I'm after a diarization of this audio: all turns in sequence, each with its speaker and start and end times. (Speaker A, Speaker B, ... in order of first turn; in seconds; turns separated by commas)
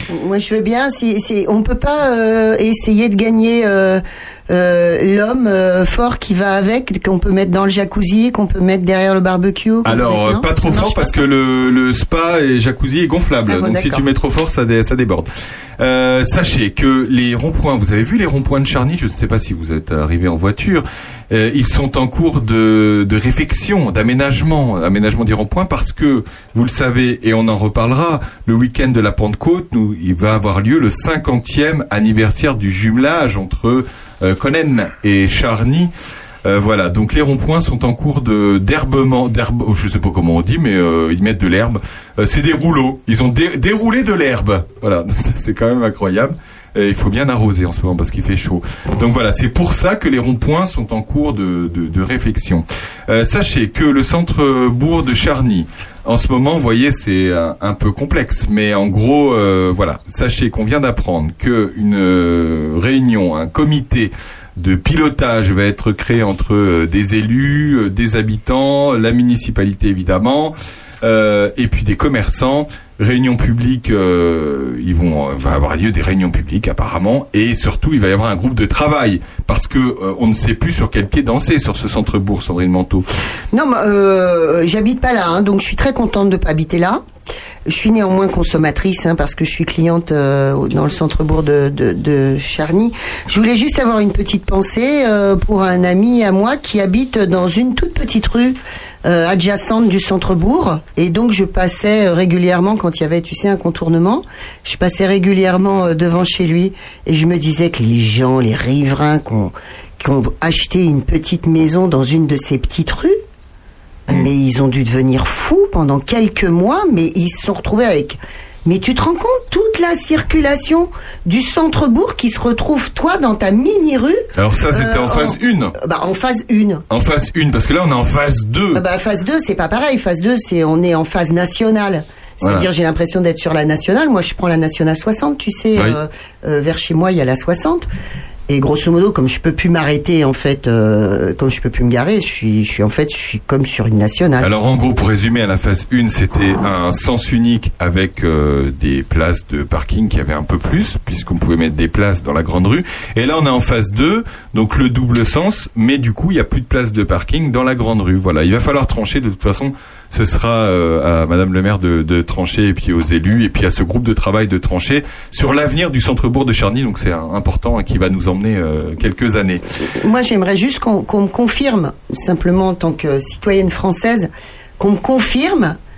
Speaker A: 0.1-11.2, Speaker B: 9.8-15.3, Speaker A: 13.5-14.1, Speaker B: 15.8-35.9, Speaker B: 36.4-83.1, Speaker A: 83.5-87.0, Speaker A: 87.7-113.2, Speaker A: 114.1-126.8, Speaker B: 124.3-125.7, Speaker B: 126.9-128.8, Speaker A: 128.7-137.9, Speaker B: 132.4-132.7, Speaker A: 138.5-144.5, Speaker B: 144.4-169.6, Speaker A: 169.9-175.8